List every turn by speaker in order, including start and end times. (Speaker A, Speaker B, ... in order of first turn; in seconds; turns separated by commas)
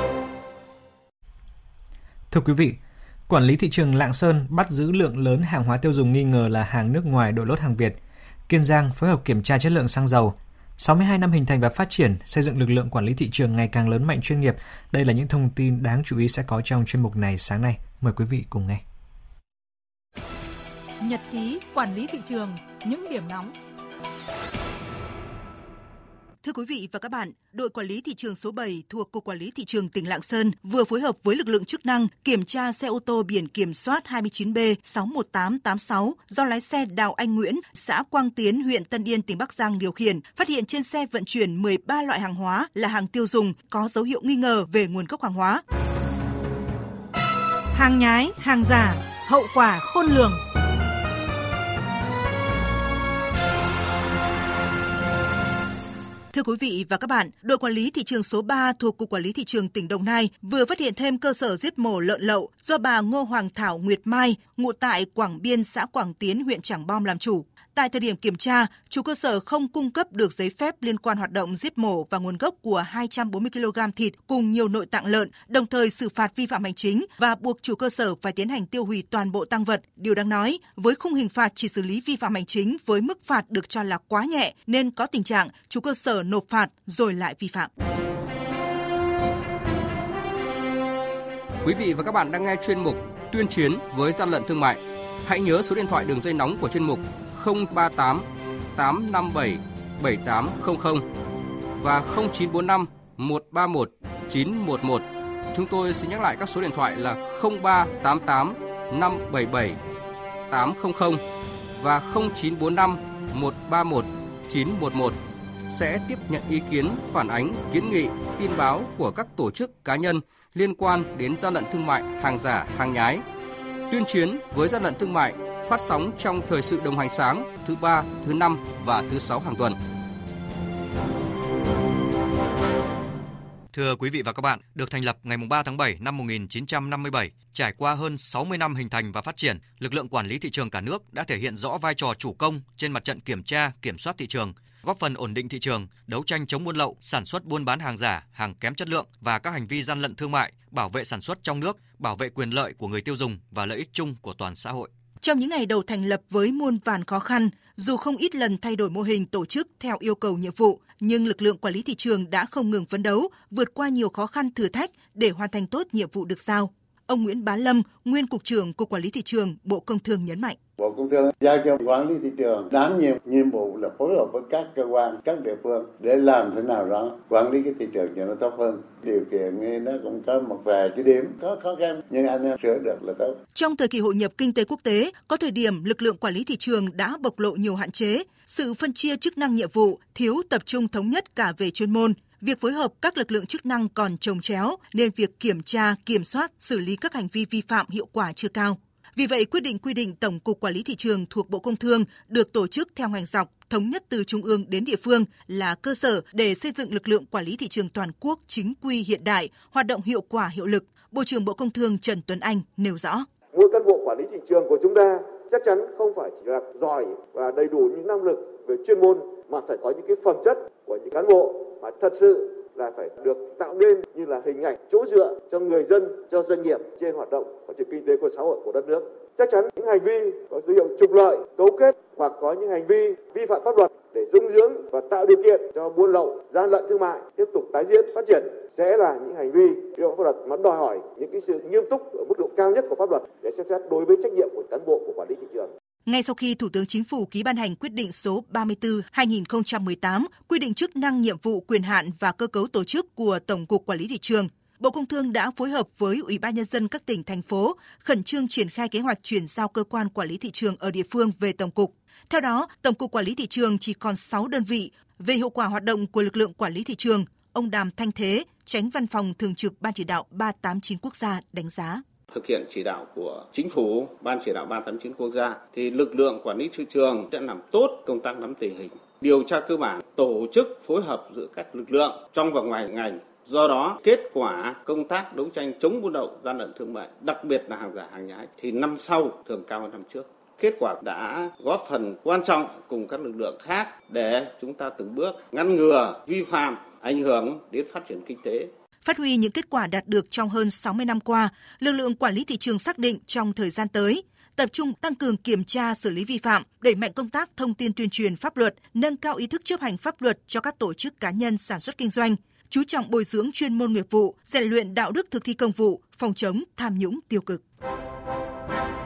Speaker A: 2.3-18.8, Speaker B: 21.0-23.5, Speaker C: 26.4-45.6, Speaker B: 47.8-50.4, Speaker C: 56.3-87.7, Speaker D: 91.6-98.2, Speaker D: 98.8-101.0, Speaker D: 101.8-109.8, Speaker D: 110.5-111.2, Speaker D: 111.8-123.2, Speaker D: 123.9-129.8, Speaker E: 133.7-154.9, Speaker C: 155.2-170.6, Speaker F: 170.8-183.4, Speaker C: 183.5-213.3, Speaker G: 213.5-245.7, Speaker C: 246.1-272.0, Speaker H: 272.3-298.7, Speaker C: 299.0-317.6